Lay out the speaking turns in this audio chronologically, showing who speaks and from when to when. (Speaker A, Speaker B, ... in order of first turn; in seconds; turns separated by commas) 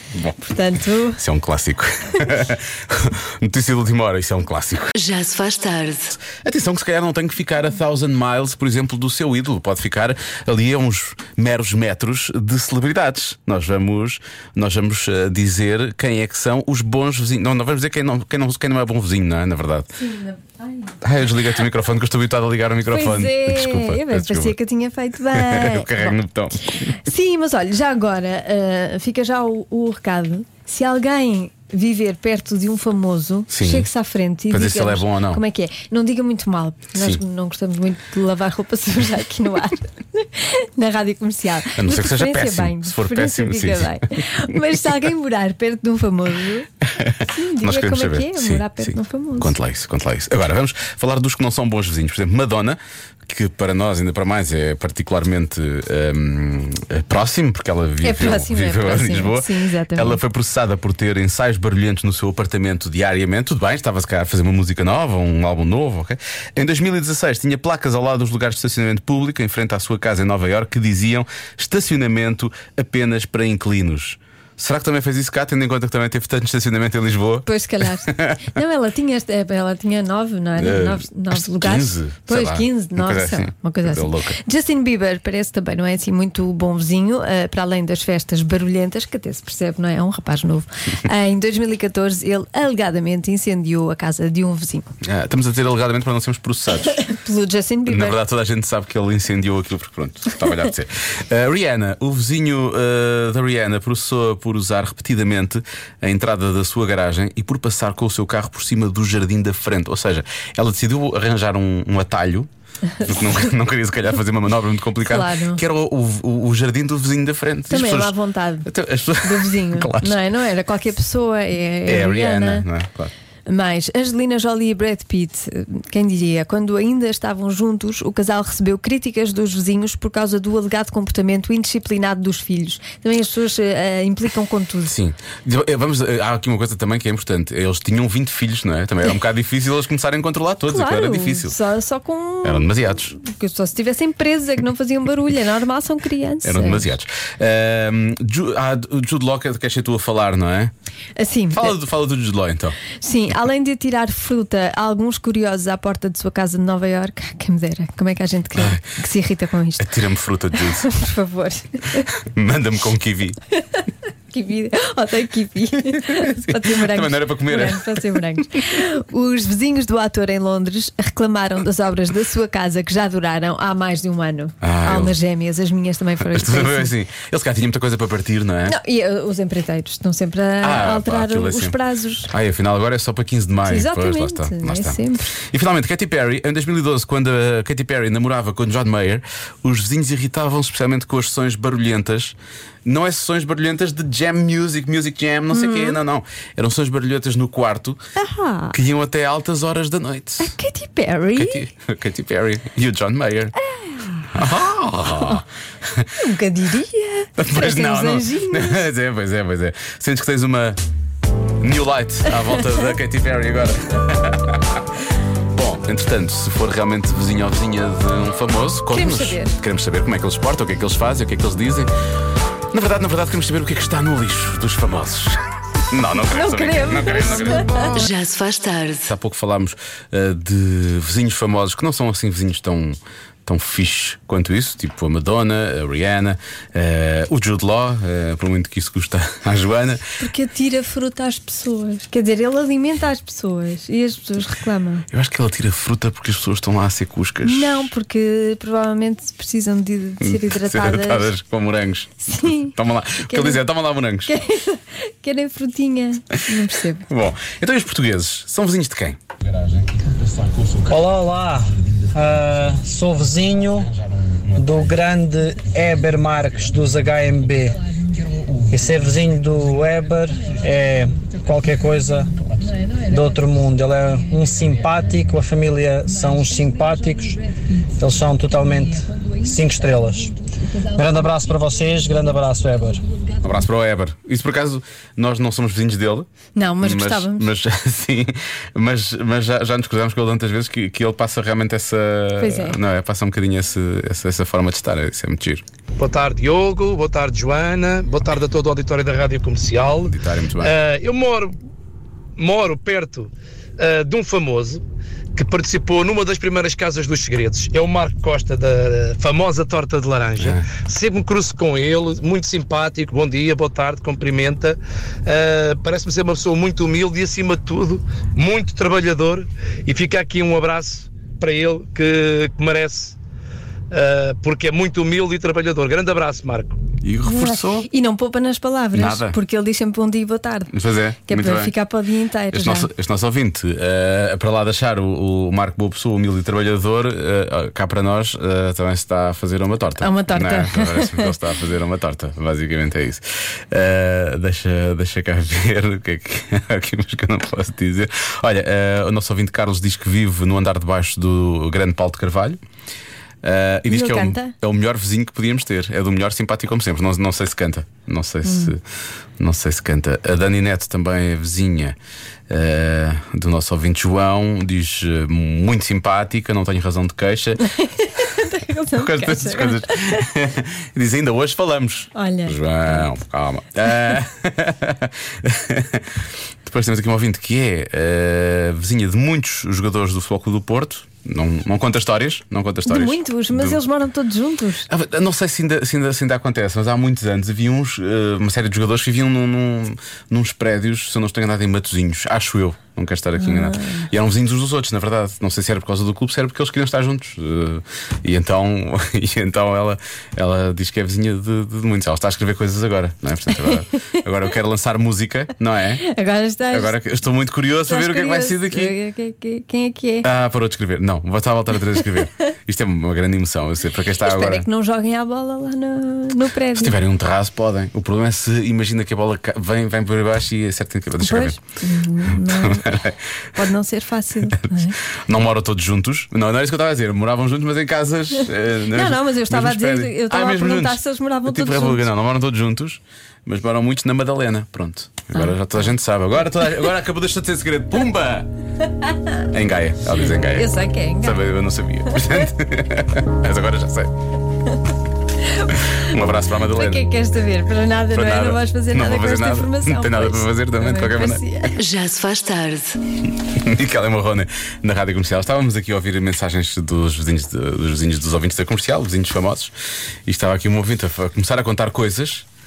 Speaker A: 0.4-1.2, Speaker B: 1.2-4.9, Speaker C: 5.0-6.1, Speaker B: 6.2-19.9, Speaker A: 19.9-21.0, Speaker B: 21.0-24.6, Speaker A: 22.9-26.2, Speaker B: 25.3-26.9, Speaker A: 26.9-46.7, Speaker B: 33.5-33.9, Speaker B: 34.5-35.4, Speaker B: 37.0-37.2, Speaker B: 41.7-44.4, Speaker B: 46.9-77.5, Speaker A: 47.2-49.5, Speaker A: 58.0-60.2, Speaker A: 77.5-94.9, Speaker B: 78.1-78.4, Speaker B: 80.6-84.4, Speaker B: 95.0-97.0, Speaker A: 96.9-98.2, Speaker B: 97.9-112.5, Speaker A: 112.9-113.5, Speaker B: 113.0-120.2, Speaker A: 115.0-115.6, Speaker A: 117.7-118.7, Speaker A: 119.2-122.7, Speaker B: 121.9-123.1, Speaker A: 123.5-134.9, Speaker B: 134.9-141.6, Speaker A: 140.7-146.9, Speaker B: 142.4-143.1, Speaker B: 146.4-150.7, Speaker A: 151.2-151.8, Speaker B: 151.5-152.8, Speaker A: 153.0-160.0, Speaker B: 158.6-158.8, Speaker B: 159.8-160.9, Speaker A: 160.6-162.1, Speaker B: 162.1-163.4, Speaker A: 164.3-176.9, Speaker B: 165.9-168.0, Speaker B: 174.6-175.2, Speaker B: 176.3-178.8, Speaker A: 178.7-182.3, Speaker B: 180.6-181.8, Speaker B: 182.3-198.0, Speaker A: 183.6-185.3, Speaker A: 195.5-196.0, Speaker A: 198.2-198.8, Speaker B: 198.7-200.6, Speaker A: 200.4-201.6, Speaker B: 201.3-203.5, Speaker A: 203.6-204.4, Speaker B: 204.3-206.1, Speaker A: 206.2-208.9, Speaker B: 207.4-210.8, Speaker B: 211.6-214.8, Speaker A: 212.3-212.8, Speaker B: 215.5-221.9, Speaker A: 218.9-219.6, Speaker B: 222.7-227.9, Speaker A: 226.3-227.7, Speaker C: 227.6-229.1, Speaker B: 229.1-240.1, Speaker A: 240.2-245.1, Speaker B: 245.1-247.9, Speaker A: 247.4-251.3, Speaker B: 250.2-254.3, Speaker A: 252.2-252.8, Speaker A: 253.3-253.6, Speaker A: 254.3-257.1, Speaker B: 257.1-259.2, Speaker D: 260.9-263.9, Speaker D: 264.6-267.8, Speaker D: 268.7-272.4, Speaker D: 273.1-277.4, Speaker D: 278.0-280.4, Speaker D: 280.9-283.0, Speaker B: 283.4-286.3, Speaker A: 286.6-287.5, Speaker B: 286.8-295.6, Speaker A: 292.4-292.8, Speaker E: 296.0-301.6, Speaker B: 300.1-300.7, Speaker E: 302.4-304.8, Speaker E: 305.4-323.2, Speaker B: 310.4-310.7, Speaker E: 323.9-326.8, Speaker B: 327.0-327.9, Speaker A: 327.2-330.7, Speaker B: 328.9-329.4, Speaker B: 330.7-331.7, Speaker A: 331.3-332.9, Speaker B: 332.5-352.6, Speaker A: 340.0-341.4, Speaker B: 353.4-358.8, Speaker A: 353.9-354.6, Speaker A: 358.4-358.7, Speaker B: 359.4-362.0, Speaker B: 362.5-367.6, Speaker A: 367.6-370.3, Speaker B: 368.9-383.8, Speaker A: 372.1-373.1, Speaker A: 382.9-384.9, Speaker B: 384.9-406.0, Speaker A: 393.4-394.1, Speaker A: 406.0-407.0, Speaker B: 406.7-408.9, Speaker A: 407.9-410.3, Speaker B: 410.2-414.7, Speaker A: 414.2-417.0, Speaker B: 416.8-421.6, Speaker A: 421.2-423.0, Speaker B: 422.4-423.2, Speaker A: 423.6-425.0, Speaker B: 424.5-438.5, Speaker A: 428.9-432.0, Speaker A: 435.3-435.9, Speaker B: 439.5-444.1, Speaker A: 440.4-441.5, Speaker A: 445.4-445.7, Speaker B: 445.9-447.0, Speaker A: 446.7-451.8, Speaker B: 448.1-451.4, Speaker C: 451.8-453.0, Speaker B: 453.5-459.7, Speaker B: 460.3-462.5